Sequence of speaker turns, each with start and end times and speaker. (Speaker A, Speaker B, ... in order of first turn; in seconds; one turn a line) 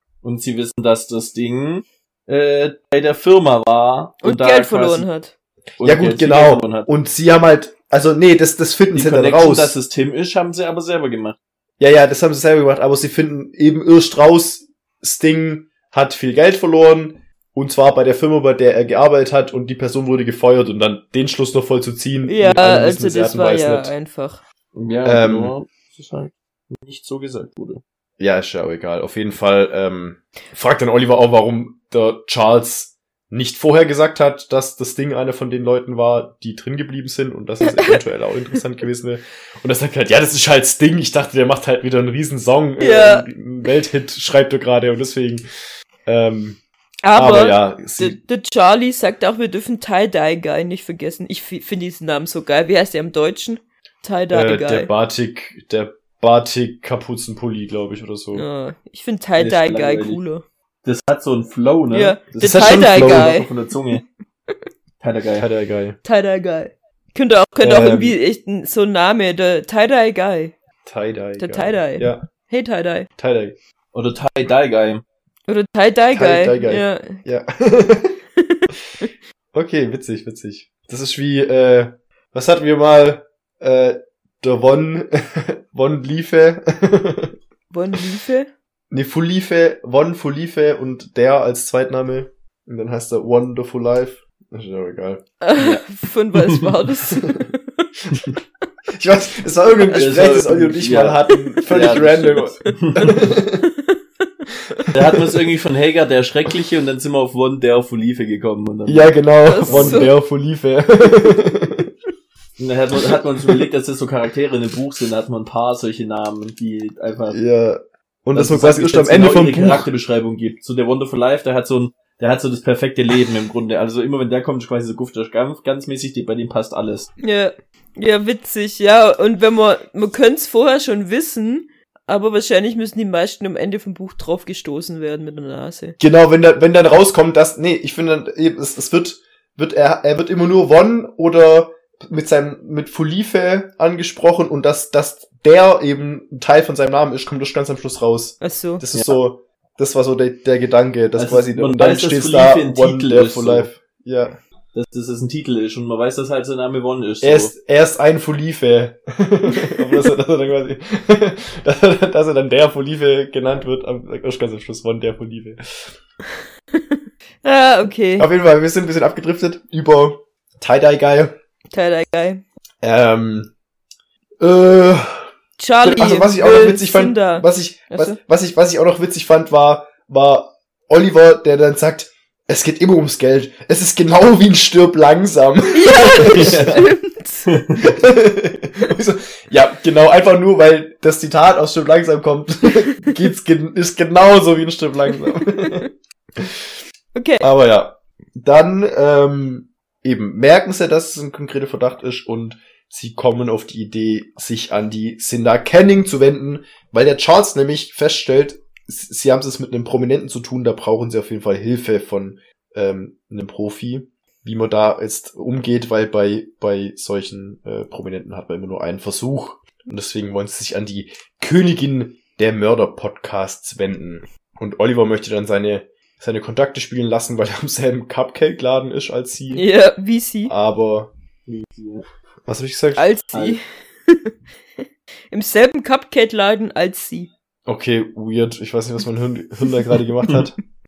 Speaker A: 0.2-5.1
Speaker B: 4.2-5.3
Speaker A: 5.8-6.9
Speaker C: 5.8-9.8
Speaker A: 8.9-11.4
Speaker C: 11.8-23.9
Speaker B: 22.2-24.4
Speaker A: 24.7-27.8
Speaker C: 25.0-25.5
Speaker C: 28.2-45.4
Speaker B: 37.6-38.0
Speaker B: 42.8-43.3
Speaker C: 46.0-46.6
Speaker B: 47.0-54.9
Speaker C: 47.1-48.2
Speaker C: 54.3-58.4
Speaker B: 58.3-60.4
Speaker A: 59.4-60.2
Speaker A: 60.8-64.0
Speaker B: 61.9-64.0
Speaker C: 62.4-63.4
Speaker A: 65.0-65.5
Speaker C: 65.3-66.0
Speaker B: 66.0-70.5
Speaker C: 67.6-68.2
Speaker C: 70.8-72.3
Speaker B: 71.4-73.1
Speaker C: 73.2-73.5
Speaker A: 73.9-75.0
Speaker B: 75.5-77.2
Speaker C: 76.1-78.2
Speaker B: 78.4-79.1
Speaker C: 79.5-87.3
Speaker B: 87.7-88.5
Speaker C: 88.9-95.2
Speaker B: 95.4-97.9
Speaker A: 95.6-96.8
Speaker C: 97.2-97.5
Speaker C: 98.9-103.7
Speaker A: 99.9-103.3
Speaker B: 103.0-104.9
Speaker A: 104.9-110.1
Speaker C: 108.8-111.9
Speaker B: 109.4-110.1
Speaker A: 112.6-117.4
Speaker C: 117.3-119.9
Speaker A: 118.3-127.1
Speaker B: 127.2-136.0
Speaker C: 136.0-154.4
Speaker B: 148.4-148.8
Speaker A: 151.2-153.7
Speaker A: 154.7-157.5
Speaker C: 157.2-165.9
Speaker B: 166.7-168.3
Speaker C: 168.2-171.3
Speaker B: 171.7-172.4
Speaker C: 172.8-173.5
Speaker C: 174.4-175.2
Speaker B: 175.6-178.2
Speaker C: 175.8-186.8
Speaker B: 185.7-187.5
Speaker A: 186.2-186.8
Speaker A: 187.5-187.8
Speaker C: 187.8-196.7
Speaker B: 195.4-195.8
Speaker B: 197.1-197.5
Speaker C: 197.4-229.7
Speaker B: 229.5-230.5
Speaker C: 230.5-231.1
Speaker A: 231.5-232.0
Speaker C: 232.4-233.1
Speaker B: 232.9-237.3
Speaker A: 233.3-233.6
Speaker C: 237.7-240.6